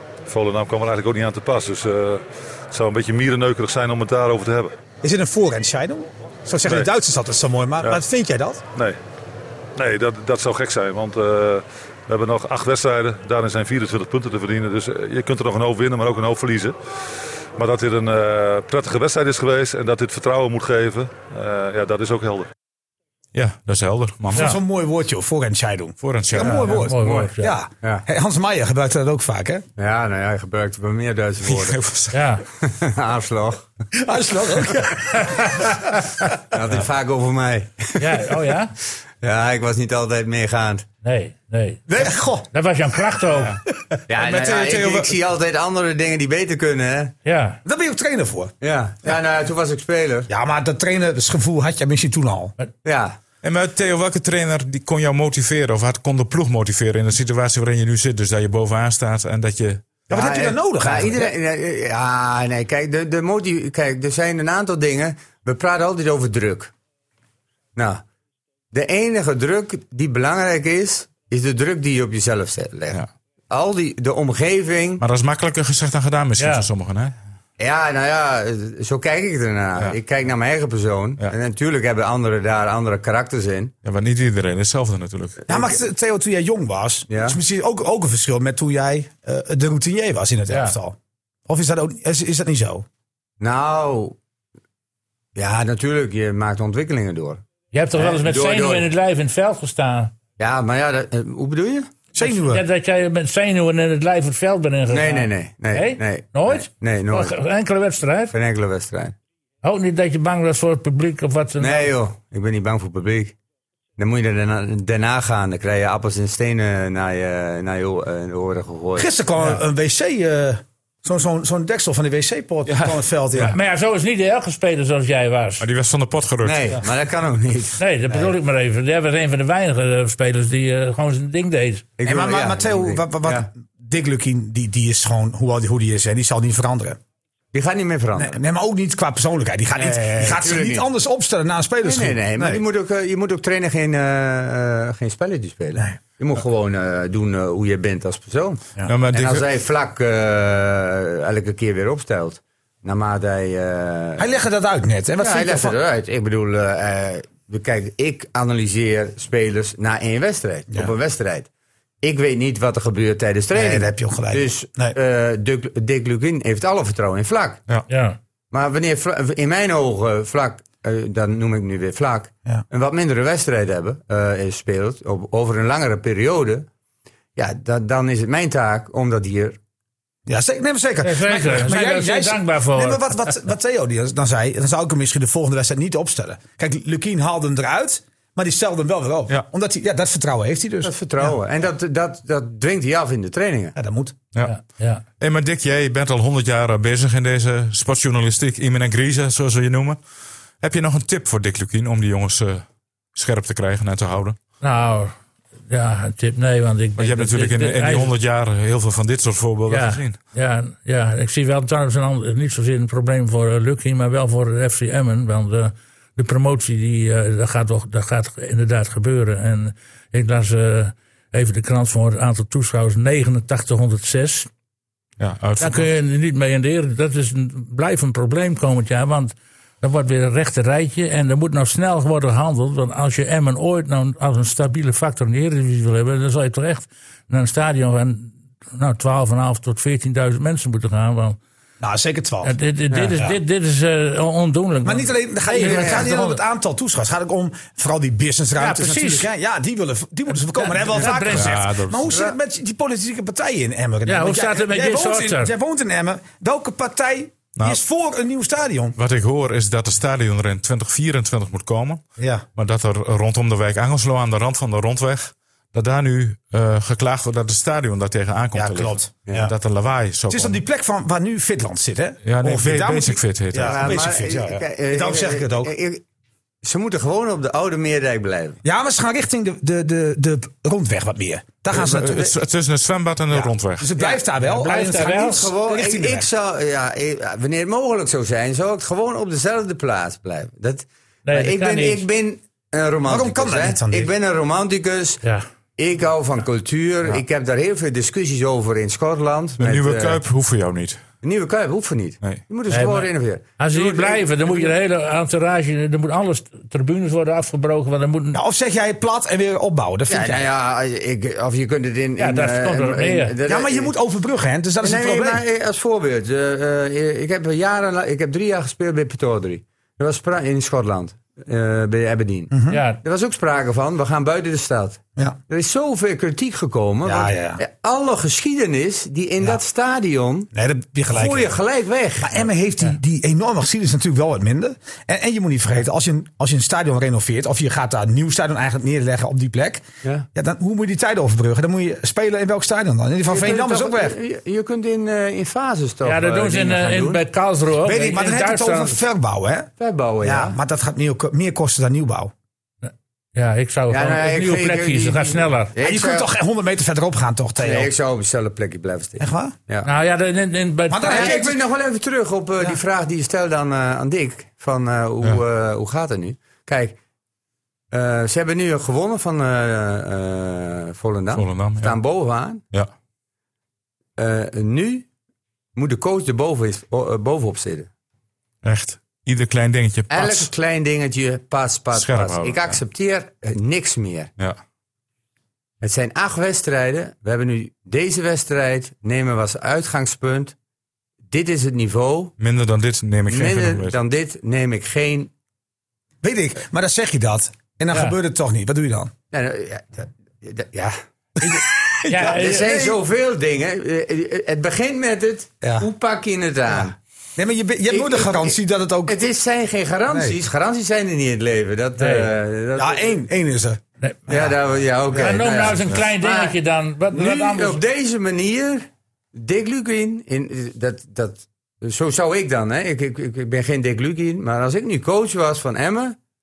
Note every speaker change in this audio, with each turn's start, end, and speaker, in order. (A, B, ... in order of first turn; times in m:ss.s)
0:00.2-0:04.7 A
0:05.0-0:08.6 B
0:06.6-0:06.9 A
0:09.8-0:16.7 A
0:17.6-0:22.5 A
0:23.3-0:24.5 C
0:24.3-0:29.6 B
0:26.0-0:26.6 C
0:26.4-0:27.5 D
0:27.0-0:27.3 E
0:29.8-0:31.8 E
0:31.4-0:32.1 C
0:32.1-0:32.4 D
0:32.6-0:33.7 E
0:33.9-0:35.8 B
0:35.1-0:35.9 D
0:36.5-0:38.4 E
0:38.0-0:38.7 D
0:39.2-0:40.8 E
0:41.0-0:41.8 D
0:41.9-0:42.5 B
0:42.5-0:43.6 D
0:43.9-0:45.1 B
0:44.1-0:47.1 E
0:47.2-0:47.6 D
0:47.6-0:48.5 B
0:48.6-0:50.3 E
0:50.3-0:52.5 B
0:52.8-0:53.2 E
0:53.4-0:59.8 C
1:00.1-1:01.3 B
1:00.1-1:06.7 E
1:07.8-1:08.0 E
1:08.7-1:15.0 E
1:15.0-1:17.1 C
1:16.4-1:16.7 D
1:17.6-1:23.7 E
1:23.8-1:25.4 C
1:25.5-1:31.0 B
1:27.1-1:27.4 E
1:30.5-1:30.8 D
1:31.5-1:32.8 B
1:33.4-1:34.2 E
1:35.3-1:37.4 E
1:37.7-1:40.1 D
1:37.9-1:38.9 E
1:40.4-1:41.9 E
1:42.1-1:42.6 B
1:42.2-1:48.3 D
1:44.9-1:47.3 E
1:48.3-1:49.2 E
1:49.6-1:51.9 D
1:51.6-1:53.4 E
1:54.0-1:59.1 E
1:59.0-2:03.6 B
2:02.8-2:03.5 C
2:03.5-2:05.6 D
2:05.6-2:06.7 C
2:06.4-2:08.3 E
2:07.8-2:11.8 D
2:12.0-2:13.5 E
2:12.0-2:17.0 B
2:17.5-2:18.4 E
2:18.2-2:22.6 B
2:19.8-2:20.8 E
2:21.8-2:34.3 E
2:28.8-2:29.4 C
2:34.2-2:35.8 B
2:35.2-2:41.5 E
2:42.0-2:47.6 E
2:43.5-2:45.0 B
2:47.9-2:48.2 D
2:48.5-2:56.7 E
2:57.4-2:59.6 E
3:00.3-3:11.4 B
3:01.0-3:03.3 D
3:10.8-3:13.8 E
3:13.8-3:14.1 B
3:14.4-3:15.0 D
3:15.2-3:20.0 C
3:20.6-3:22.6 C
3:23.1-3:24.4 C
3:24.6-3:25.2 D
3:25.7-3:28.1 D
3:27.0-3:30.2 C
3:29.7-3:44.5 D
3:45.2-3:45.9 C
3:45.6-4:01.4 D
4:01.8-4:02.6 B
4:02.4-4:06.4 D
4:04.8-4:19.0 B
4:05.6-4:06.1 E
4:08.6-4:09.3 D
4:10.6-4:11.6 D
4:11.0-4:12.1 C
4:14.0-4:15.5 D
4:19.0-4:22.0 C
4:22.2-4:22.4 B
4:22.6-4:30.6 C
4:28.5-4:29.5 B
4:30.3-4:35.7 B
4:32.2-4:34.0 C
4:33.6-4:36.0 E
4:36.6-4:38.6 E
4:38.6-4:42.3 B
4:41.7-4:42.3 E
4:41.8-4:43.9 C
4:43.3-4:46.3 B
4:44.4-4:45.5 D
4:44.7-4:55.2 E
4:51.2-4:52.0 D
4:53.0-4:54.1 B
4:55.8-5:00.2 E
4:59.6-5:01.0 C
5:01.2-5:04.7 E
5:02.7-5:08.4 D
5:08.3-5:10.4 B
5:10.1-5:13.9 E
5:12.2-5:13.3 D
5:13.4-5:15.4 B
5:14.8-5:30.5 E
5:22.5-5:22.8 B
5:22.7-5:23.0 D
5:27.0-5:27.6 B
5:30.5-5:31.6 B
5:31.1-5:32.5 E
5:32.2-5:44.2 B
5:43.2-5:47.2 E
5:46.0-5:49.0 D
5:47.8-5:49.7 B
5:49.8-5:50.6 E
5:50.2-5:52.3 B
5:52.8-5:55.7 D
5:53.9-5:56.3 E
5:55.8-5:57.9 B
5:57.6-5:59.9 E
5:59.2-5:59.6 B
5:59.8-6:01.4 D
6:00.9-6:01.6 B
6:01.1-6:07.0 E
6:07.9-6:12.6 E
6:11.3-6:12.0 C
6:14.2-6:15.1 E
6:15.7-6:17.9 E
6:18.6-6:20.5 C
6:20.1-6:24.3 E
6:21.9-6:22.8 C
6:25.8-6:30.5 E
6:31.3-6:32.3 E
6:32.4-6:34.0 C
6:33.3-6:35.3 E
6:36.2-6:39.1 B
6:37.9-6:38.2 D
6:39.3-6:41.6 E
6:41.4-6:43.0 B
6:42.0-6:42.8 D
6:42.2-6:46.9 E
6:45.6-6:45.9 B
6:46.7-6:49.2 B
6:47.9-6:53.2 E
6:50.1-6:50.4 B
6:52.0-6:52.3 D
6:52.7-6:54.5 B
6:54.3-6:56.6 E
6:55.1-6:55.4 B
6:55.2-6:57.8 D
6:57.1-7:06.2 E